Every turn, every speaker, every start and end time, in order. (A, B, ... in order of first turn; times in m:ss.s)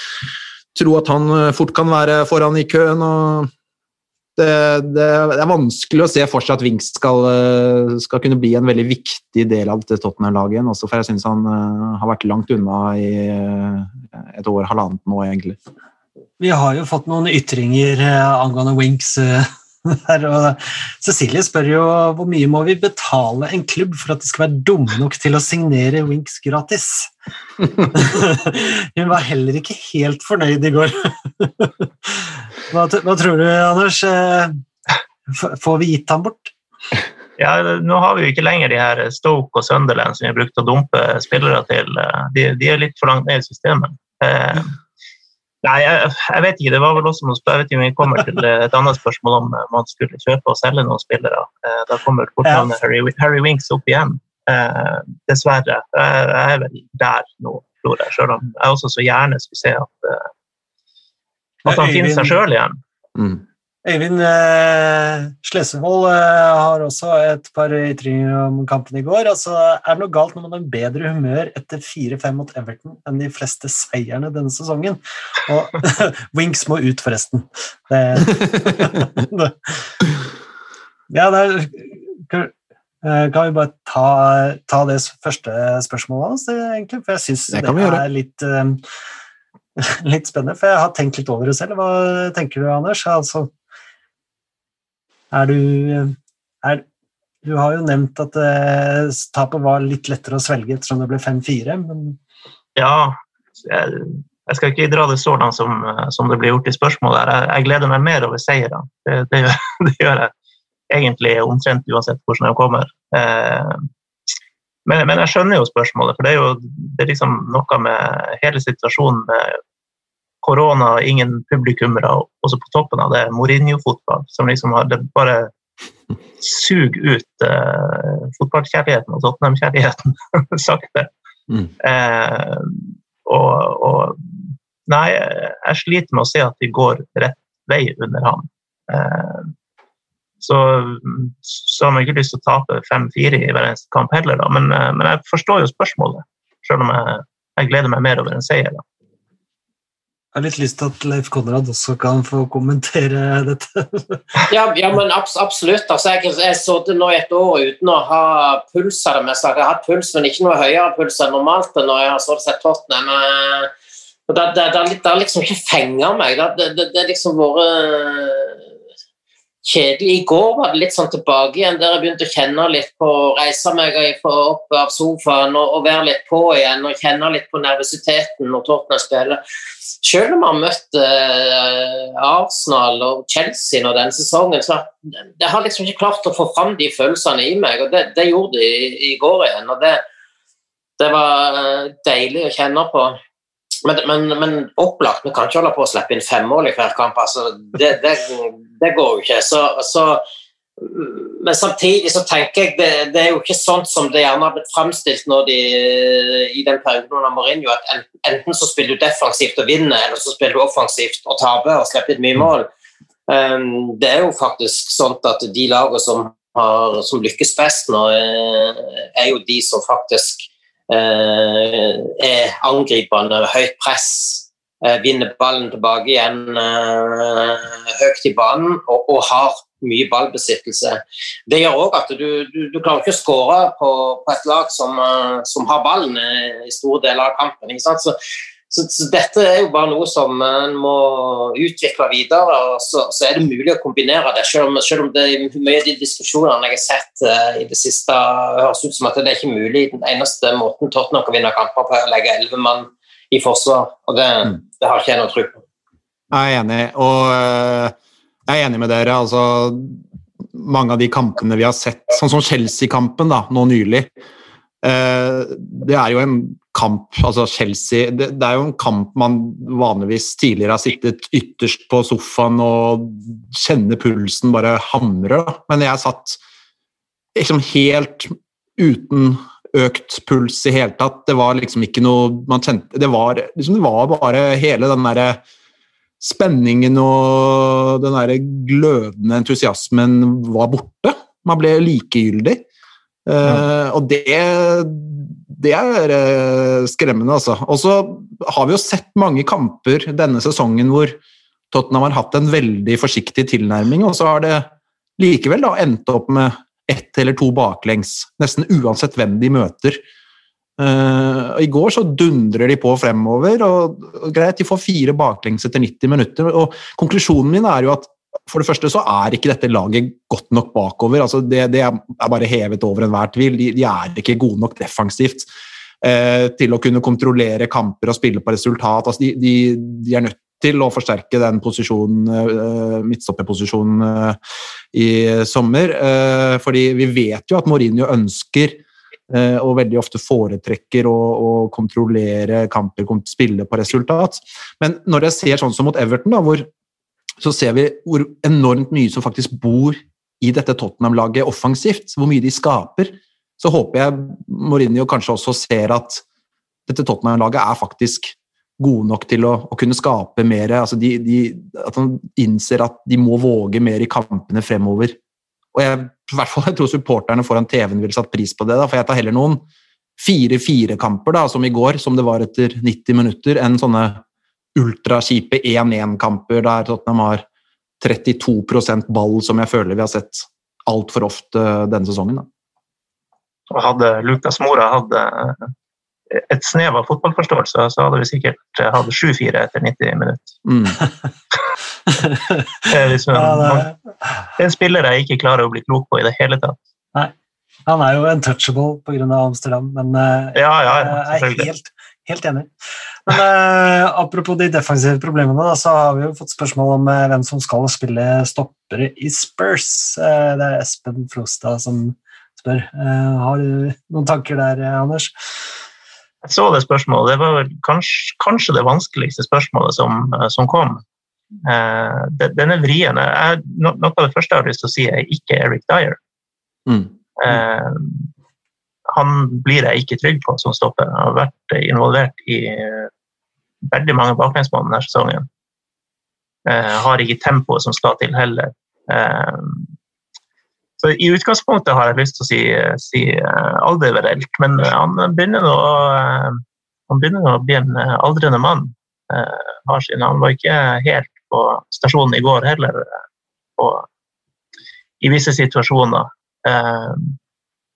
0:00.7-0:03.5 A
0:04.4-0:15.6 A
0:16.4-0:27.1 B
0:27.9-0:34.6 B
0:35.3-0:36.5 B
0:37.4-0:44.7 C
0:45.6-1:00.3 C
0:52.4-0:52.7 B
1:01.6-1:02.4 B
1:01.7-1:02.8 C
1:03.2-1:03.4 A
1:03.8-1:19.7 B
1:21.1-1:28.8 B
1:27.5-1:28.0 A
1:29.8-1:33.5 B
1:35.3-1:36.8 B
1:37.4-1:42.2 B
1:42.8-1:50.3 C
1:50.9-1:53.9 C
1:54.9-1:59.6 C
2:00.4-2:05.5 C
2:06.4-2:11.1 C
2:11.8-2:19.5 C
2:20.4-2:28.8 C
2:30.4-2:34.2 B
2:34.5-2:43.7 D
2:44.3-2:48.6 D
2:49.6-2:59.4 D
3:00.0-3:10.0 D
3:11.0-3:13.2 D
3:13.8-3:20.2 D
3:20.8-3:32.7 D
3:33.3-3:58.2 D
3:58.7-4:15.6 D
4:16.3-4:18.0 A
4:18.5-4:24.1 A
4:24.8-4:36.4 A
4:37.4-4:45.4 A
4:46.2-4:52.6 A
4:53.3-5:01.2 A
5:01.7-5:10.0 A
5:10.8-5:25.5 A
5:26.0-5:34.4 A
5:34.9-5:46.7 A
5:47.4-5:56.2 A
5:56.9-6:05.2 A
6:05.7-6:09.6 A
6:10.2-6:14.2 A
6:14.8-6:17.4 A
6:18.0-6:22.5 A
6:23.7-6:25.7 C
6:26.3-6:30.6 C
6:30.6-6:31.0 A
6:32.2-6:34.0 B
6:32.9-6:33.9 C
6:34.6-6:36.8 C
6:37.9-6:42.7 B
6:40.6-6:41.7 C
6:43.3-6:55.3 B
6:56.4-7:01.0 C
7:01.6-7:06.2 C
7:06.9-7:07.2 A
7:07.4-7:08.3 C
7:09.1-7:13.1 C
7:13.9-7:15.5 C
7:16.7-7:19.9 C
7:21.0-7:33.2 C
7:33.8-7:34.1 C
7:35.2-7:37.4 C